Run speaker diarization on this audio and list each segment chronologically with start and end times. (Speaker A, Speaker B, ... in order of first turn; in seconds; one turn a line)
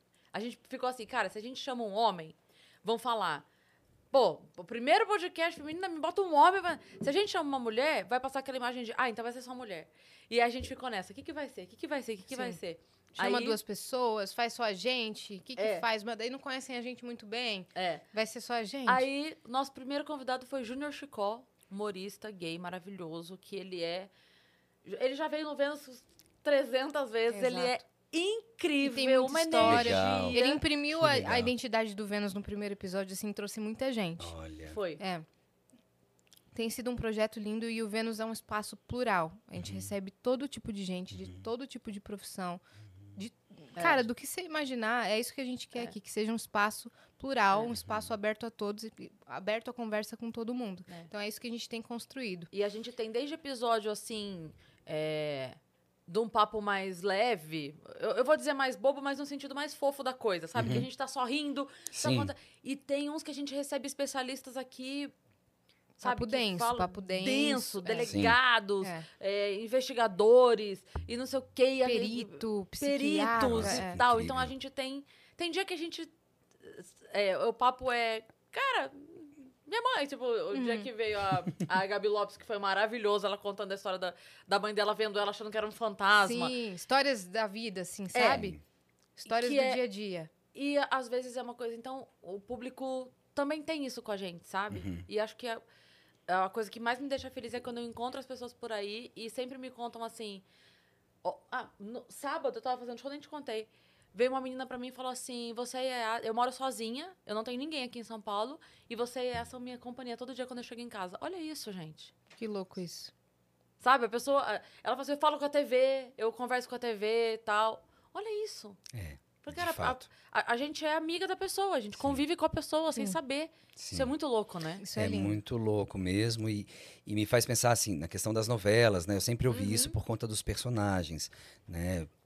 Speaker A: 0.3-3.5
Speaker A: 4.1-13.6
Speaker B: 12.3-12.6
Speaker B: 13.2-19.0
Speaker A: 15.6-15.8
Speaker A: 17.8-18.0
Speaker A: 18.9-24.1
Speaker A: 24.8-30.6
Speaker B: 27.3-27.8
Speaker B: 28.8-34.3
Speaker C: 29.6-30.4
Speaker C: 30.9-31.5
Speaker C: 34.2-34.8
Speaker A: 34.7-35.0
Speaker B: 35.0-35.2
Speaker B: 36.5-42.6
Speaker C: 39.6-39.9
Speaker B: 43.1-52.5
Speaker A: 52.5-65.1
Speaker C: 60.5-60.9
Speaker C: 61.9-62.3
Speaker B: 66.0-68.2
Speaker A: 66.0-76.1
Speaker C: 68.1-68.4
Speaker B: 71.8-74.0
Speaker C: 73.3-74.5
Speaker A: 76.6-86.5
Speaker B: 80.5-80.9
Speaker B: 86.2-88.6
Speaker A: 88.1-88.5
Speaker B: 89.2-90.3
Speaker A: 89.3-89.8
Speaker A: 90.5-95.6
Speaker C: 94.7-95.0
Speaker A: 96.3-100.4
Speaker A: 101.2-112.1
Speaker B: 112.3-113.1
Speaker A: 113.8-118.8
Speaker C: 118.9-120.1
Speaker A: 119.4-124.8
Speaker C: 122.0-122.2
Speaker C: 123.8-124.1
Speaker B: 124.8-125.4
Speaker C: 125.0-132.1
Speaker A: 129.5-129.9